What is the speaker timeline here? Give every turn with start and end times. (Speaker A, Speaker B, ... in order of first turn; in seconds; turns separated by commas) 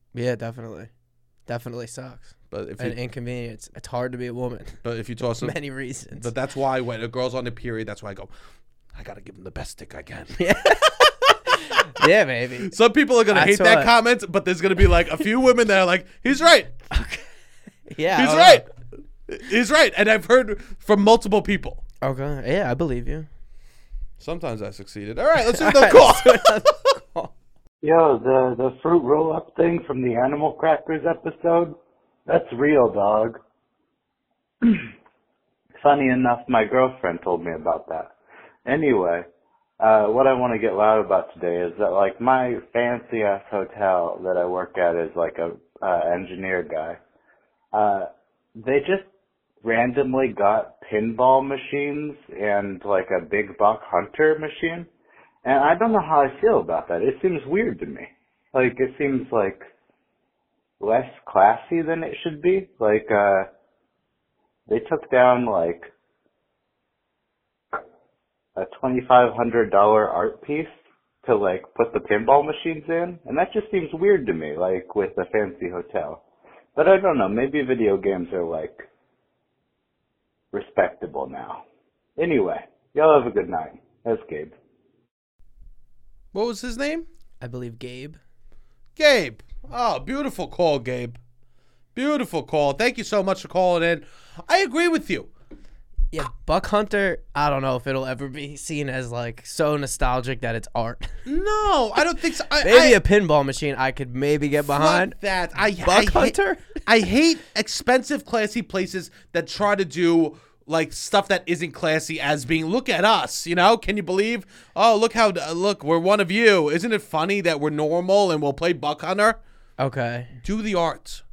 Speaker A: 0.1-0.9, Speaker A: 1.5-4.8, Speaker B: 2.5-3.0, Speaker B: 4.8-5.6, Speaker A: 5.4-6.3, Speaker B: 6.2-8.3, Speaker B: 8.9-12.1, Speaker A: 10.4-12.7, Speaker B: 12.6-16.9, Speaker A: 13.3-13.9, Speaker A: 16.9-17.3, Speaker A: 17.9-18.6, Speaker B: 18.2-18.7, Speaker B: 19.3-21.8, Speaker A: 22.0-23.3, Speaker B: 24.2-26.8, Speaker A: 25.4-27.3, Speaker C: 27.8-31.8, Speaker C: 32.3-33.4, Speaker C: 34.6-34.9, Speaker C: 35.8-38.1, Speaker C: 38.7-39.2, Speaker C: 39.8-47.0, Speaker C: 47.7-49.1, Speaker C: 49.6-54.9, Speaker C: 55.5-59.6, Speaker C: 60.8-63.5, Speaker C: 64.7-65.9, Speaker C: 68.6-70.7, Speaker C: 71.2-76.2, Speaker C: 76.8-78.8, Speaker C: 80.5-81.6, Speaker C: 82.2-84.5, Speaker B: 86.3-87.1, Speaker A: 87.4-88.2, Speaker B: 89.0-91.2, Speaker B: 92.0-95.3, Speaker A: 96.1-101.1, Speaker B: 101.3-103.0, Speaker A: 102.6-105.2, Speaker B: 104.6-119.4, Speaker A: 105.8-106.8, Speaker A: 119.8-120.3, Speaker B: 120.4-121.2